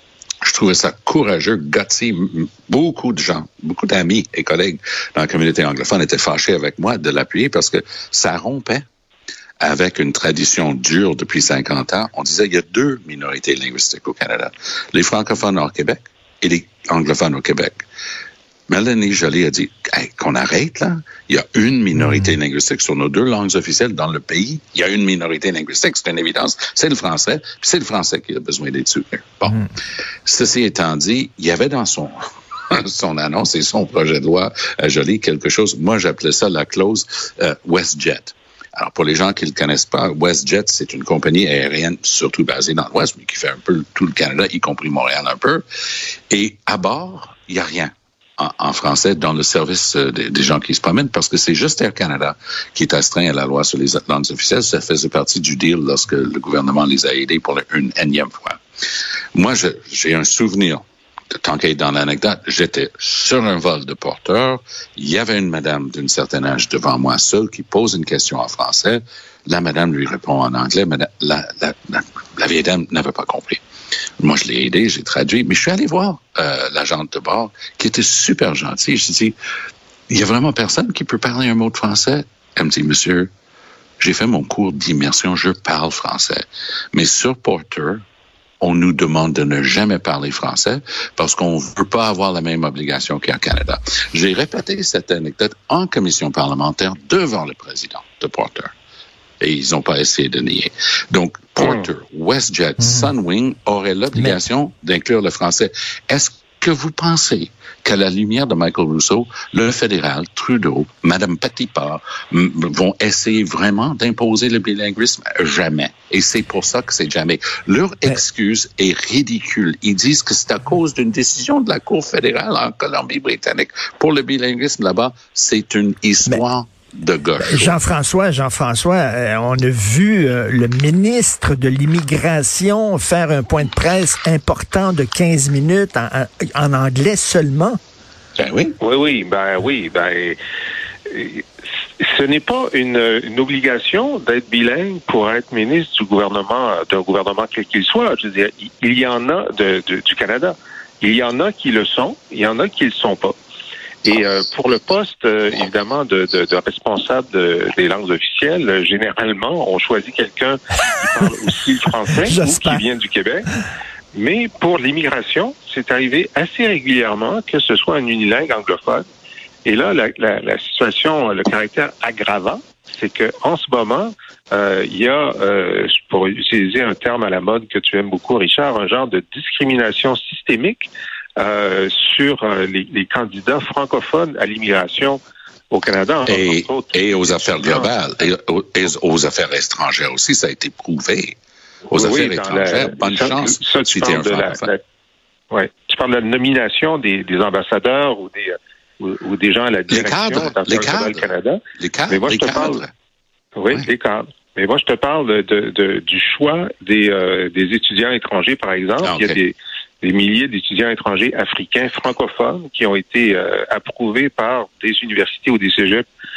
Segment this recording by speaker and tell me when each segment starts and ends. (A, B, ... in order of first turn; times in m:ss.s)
0:00.4-0:08.8 A
0:09.6-0:17.8 A
0:18.7-0:29.7 A
0:30.2-0:32.2 A
0:32.7-0:45.6 A
0:46.3-0:58.6 A
0:59.4-1:13.6 A
1:14.2-1:19.4 A
1:20.1-1:23.3 A
1:24.0-1:28.0 A
1:28.6-1:38.7 A
1:39.4-2:07.8 A
1:42.8-1:43.1 B
2:07.4-2:17.8 B
2:18.4-2:18.8 A
2:18.8-2:20.4 C
2:21.1-2:21.4 C
2:22.0-2:33.4 C
2:34.0-2:43.5 C
2:42.2-2:42.9 B
2:44.1-2:49.1 C
2:49.6-3:05.2 C
3:05.7-3:07.9 C
3:06.3-3:11.4 A
3:11.9-3:14.7 A
3:11.9-3:14.8 C
3:15.5-3:22.8 C
3:19.9-3:21.3 A
3:21.8-3:22.9 A
3:23.6-3:36.1 C
3:29.0-3:29.4 A